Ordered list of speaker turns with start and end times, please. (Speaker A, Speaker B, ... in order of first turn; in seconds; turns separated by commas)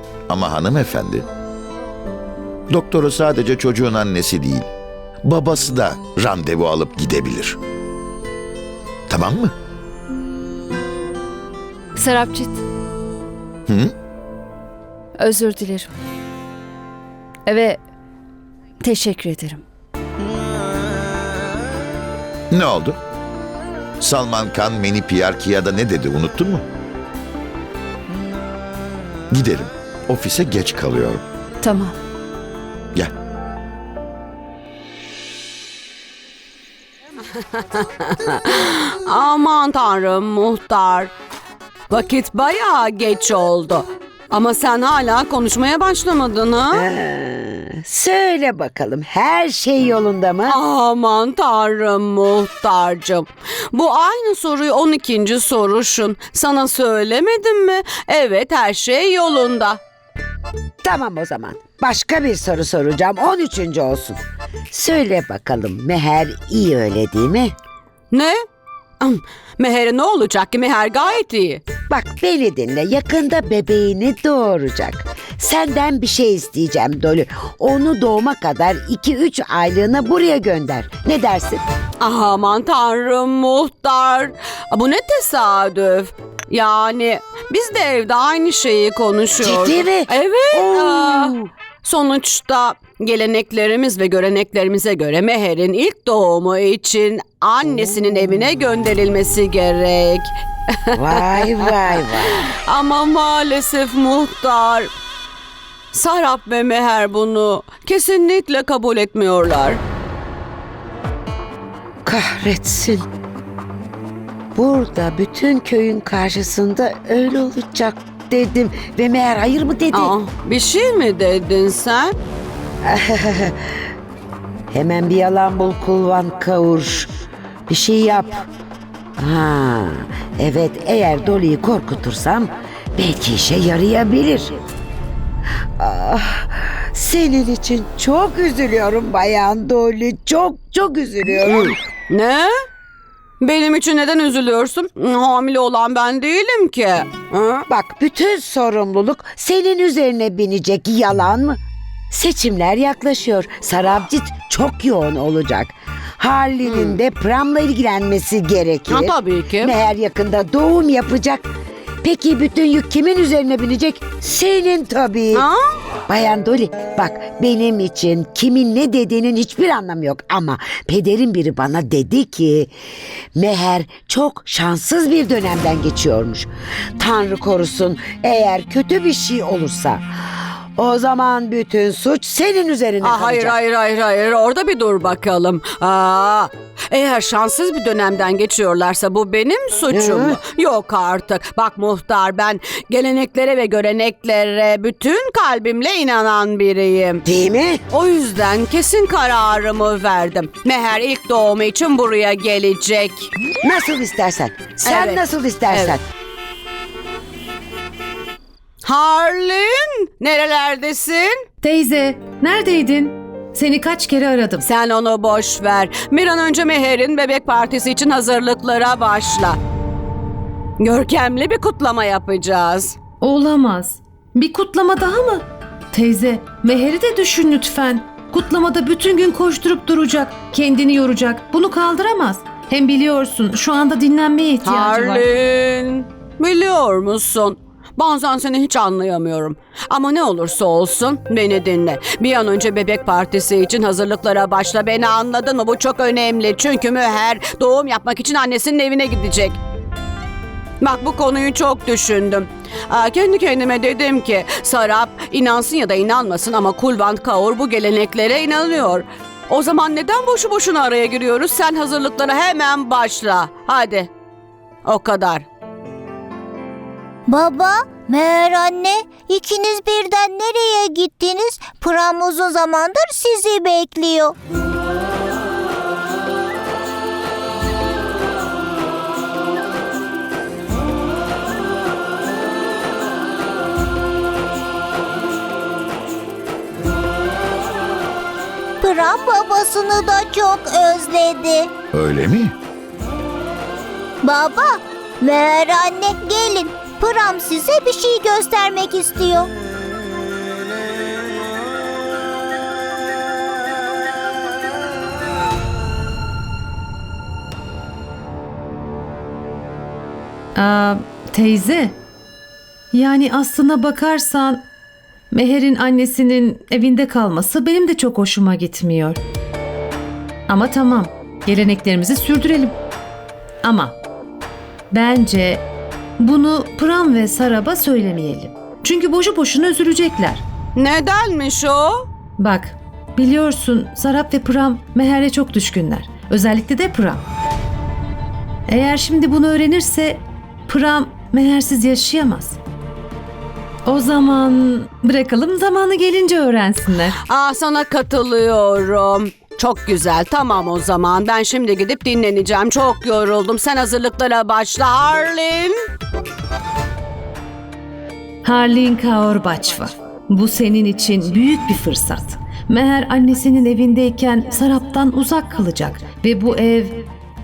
Speaker A: 0.3-1.2, Speaker A: 2.7-4.7, Speaker A: 5.2-7.6, Speaker A: 9.1-9.5, Speaker B: 12.0-12.6, Speaker A: 13.7-13.9, Speaker B: 15.2-15.9, Speaker B: 17.5-17.7, Speaker B: 18.8-19.6, Speaker A: 22.5-23.0, Speaker A: 24.0-26.6, Speaker A: 29.3-31.2, Speaker C: 37.7-41.1, Speaker C: 41.9-46.8, Speaker D: 46.7-50.6, Speaker C: 50.5-59.8, Speaker D: 60.8-64.2, Speaker D: 64.7-67.5, Speaker C: 68.1-68.4, Speaker C: 69.0-71.6, Speaker D: 71.9-81.6, Speaker C: 82.0-100.3, Speaker D: 89.4-91.4, Speaker C: 100.8-104.9, Speaker D: 100.9-102.6, Speaker C: 105.9-109.8, Speaker D: 112.0-113.0, Speaker D: 114.5-120.2, Speaker C: 119.9-122.2, Speaker D: 122.8-123.5, Speaker D: 124.7-127.1, Speaker D: 127.7-128.4, Speaker D: 129.2-134.5, Speaker D: 135.8-141.7, Speaker C: 141.3-142.5, Speaker C: 143.4-147.6, Speaker D: 147.7-151.6, Speaker D: 152.1-161.5, Speaker C: 156.6-157.0, Speaker C: 158.9-159.8, Speaker D: 162.0-165.5, Speaker C: 165.3-165.6, Speaker D: 166.1-172.7, Speaker D: 173.3-180.1, Speaker D: 180.8-183.6, Speaker C: 183.0-197.2, Speaker D: 189.9-190.4, Speaker D: 197.2-197.8, Speaker C: 197.9-203.3, Speaker D: 203.6-206.0, Speaker C: 204.8-206.0, Speaker C: 208.8-211.4, Speaker E: 211.6-214.7, Speaker C: 214.6-219.6, Speaker C: 220.8-222.9, Speaker E: 223.2-235.3, Speaker C: 234.6-249.6, Speaker C: 250.8-264.1, Speaker C: 264.8-265.4, Speaker F: 267.3-274.3, Speaker F: 288.8-291.7, Speaker A: 291.9-292.5, Speaker F: 294.2-299.5, Speaker E: 310.5-312.0, Speaker E: 312.9-314.6, Speaker E: 315.3-319.2, Speaker E: 320.5-322.8, Speaker E: 323.6-324.0, Speaker E: 324.9-325.7, Speaker E: 326.2-330.4, Speaker C: 330.8-332.0, Speaker E: 332.4-337.2, Speaker E: 338.7-342.6, Speaker E: 343.9-347.2, Speaker C: 347.3-355.8, Speaker E: 358.4-367.1